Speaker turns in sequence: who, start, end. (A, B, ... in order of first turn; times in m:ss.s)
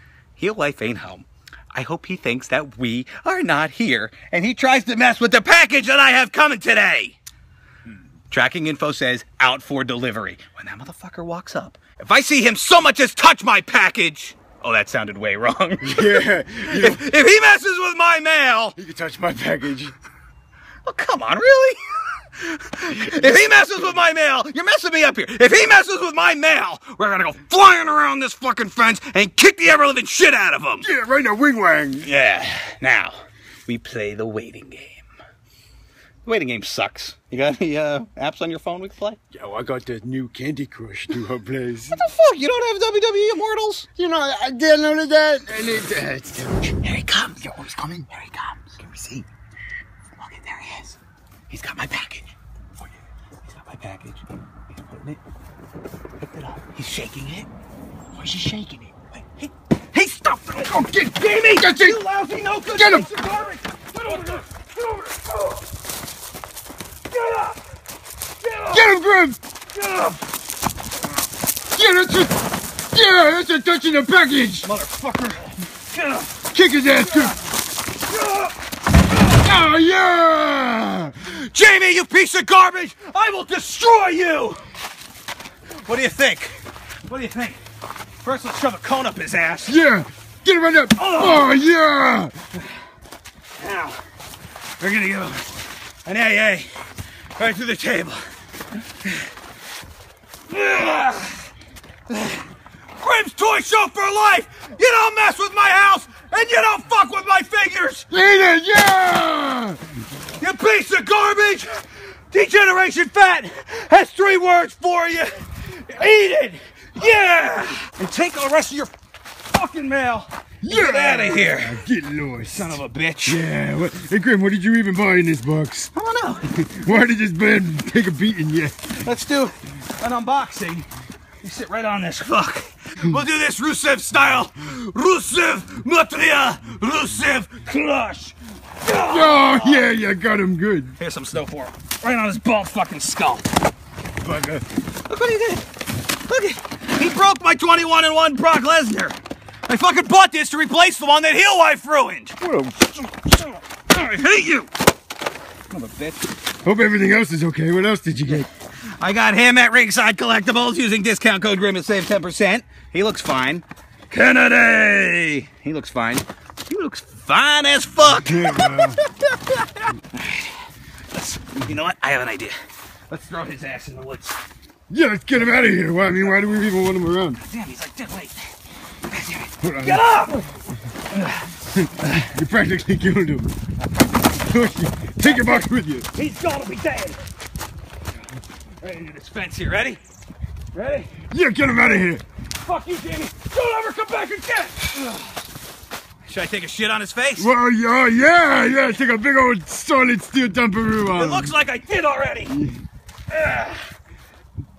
0:00.4-0:07.2 A
0:08.3-0:18.8 A
0:15.8-0:17.0 B
0:18.8-0:20.0 B
0:20.8-0:30.9 A
0:30.8-0:32.1 B
0:32.0-0:35.0 A
0:36.2-0:39.2 A
0:39.3-0:42.0 B
0:41.9-0:43.9 A
0:44.0-0:46.6 B
0:46.8-0:49.3 A
0:50.2-0:51.0 A
0:51.5-0:52.3 A
0:53.5-0:55.2 A
0:56.2-0:57.5 A
0:58.2-1:05.6 A
1:00.6-1:02.0 B
1:02.7-1:03.1 B
1:07.1-1:07.6 A
1:08.4-1:08.9 A
1:08.7-1:09.4 B
1:09.7-1:10.2 A
1:11.7-1:12.4 B
1:12.9-1:14.7 B
1:14.6-1:16.4 A
1:16.5-1:17.4 B
1:18.1-1:18.5 A
1:19.3-1:21.2 B
1:21.2-1:24.6 A
1:25.8-1:27.6 A
1:28.2-1:29.8 A
1:29.7-1:32.4 B
1:31.0-1:31.6 A
1:33.6-1:34.0 A
1:34.8-1:38.3 A
1:40.5-1:41.5 A
1:42.1-1:48.1 A
1:48.1-1:49.9 B
1:50.4-1:58.9 A
1:59.4-2:01.8 A
2:00.6-2:05.9 B
2:02.5-2:03.4 A
2:05.9-2:06.5 A
2:06.5-2:08.9 B
2:08.9-2:10.9 A
2:11.4-2:19.9 A
2:19.0-2:20.9 B
2:21.0-2:23.5 A
2:24.2-2:24.6 B
2:25.1-2:25.7 A
2:26.3-2:32.4 A
2:32.4-2:32.9 B
2:33.1-2:34.7 A
2:35.7-2:36.2 A
2:36.6-2:38.5 B
2:39.0-2:50.5 A
2:48.2-2:49.0 B
2:51.1-2:52.6 A
2:53.1-2:54.4 A
2:54.9-2:57.4 B
2:57.4-2:58.5 A
2:59.1-3:00.5 A
2:59.6-3:00.1 B
3:01.1-3:01.5 A
3:01.7-3:03.5 B
3:04.4-3:06.1 B
3:05.2-3:07.2 A
3:08.8-3:10.0 A
3:10.7-3:11.2 A
3:11.3-3:12.2 B
3:12.6-3:15.4 A
3:16.2-3:17.5 A
3:17.4-3:21.5 B
3:21.1-3:22.6 A
3:22.5-3:22.8 B
3:23.3-3:23.9 A